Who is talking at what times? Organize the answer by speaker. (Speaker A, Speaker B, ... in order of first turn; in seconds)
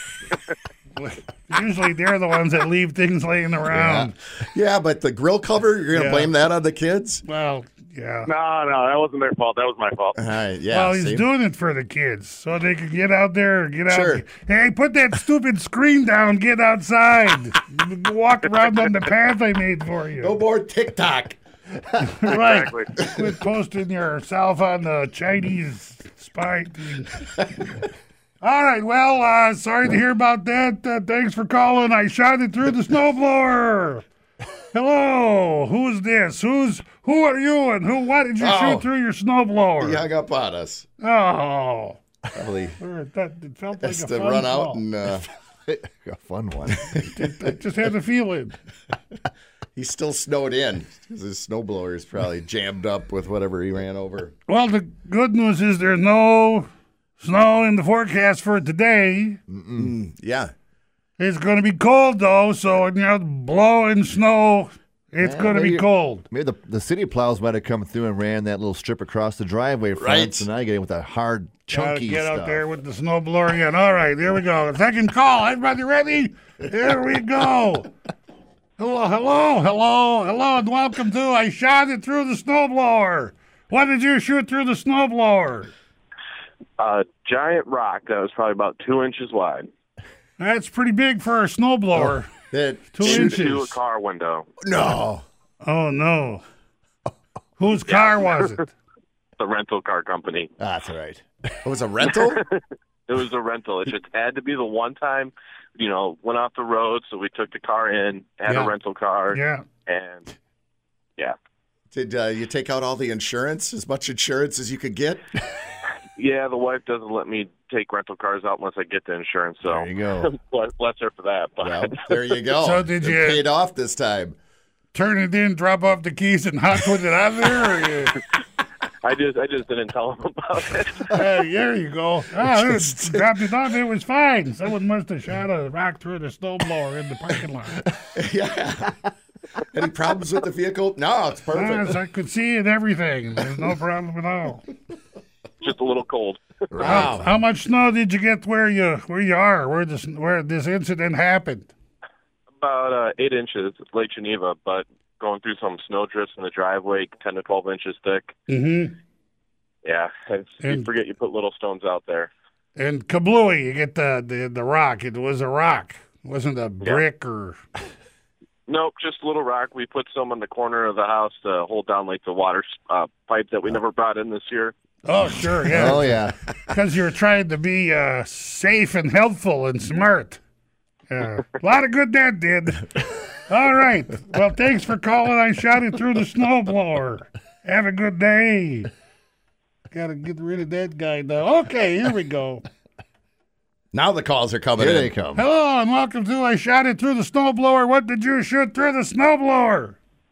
Speaker A: 0.9-4.1, 5.9-6.3, 7.2-8.3, 10.7-20.4, 22.0-27.1, 28.4-34.0, 34.7-40.0, 41.0-42.0, 42.8-44.8, 47.1-48.5, 54.5-56.7, 57.2-59.4, 61.2-66.2, 71.7-77.9, 78.8-85.7, 90.4-92.3, 92.9-93.8, 95.6-96.4, 97.6-98.7, 109.3-109.6, 122.5-123.4, 124.9-128.1, 131.1-137.8, 141.5-144.6, 146.8-151.7, 158.5-158.9, 162.8-167.6, 175.0-180.4, 181.1-188.9, 189.9-192.6, 195.3-200.0
Speaker B: 3.8-4.1, 45.7-47.1, 59.5-59.9, 65.2-72.6, 119.6-120.3, 146.7-147.2, 175.7-176.4, 194.8-195.4
Speaker C: 4.4-7.2, 10.2-11.2, 13.9-14.2, 20.2-21.4, 38.4-38.9, 39.8-40.9, 42.3-42.8, 43.8-45.2, 49.7-54.3, 59.8-60.5, 70.0-70.5, 92.0-93.5, 94.6-95.2, 100.8-102.4, 111.9-115.3, 121.6-124.3, 132.5-133.2, 138.1-138.9, 139.7-141.9, 146.7-147.3, 193.9-195.1
Speaker D: 8.2-10.2, 22.3-22.9
Speaker E: 86.8-89.7, 93.0-94.5, 97.9-98.5, 99.4-100.5, 102.1-110.3, 116.2-122.3, 129.0-131.1, 145.6-147.0, 152.6-158.3, 159.8-162.3, 168.7-174.7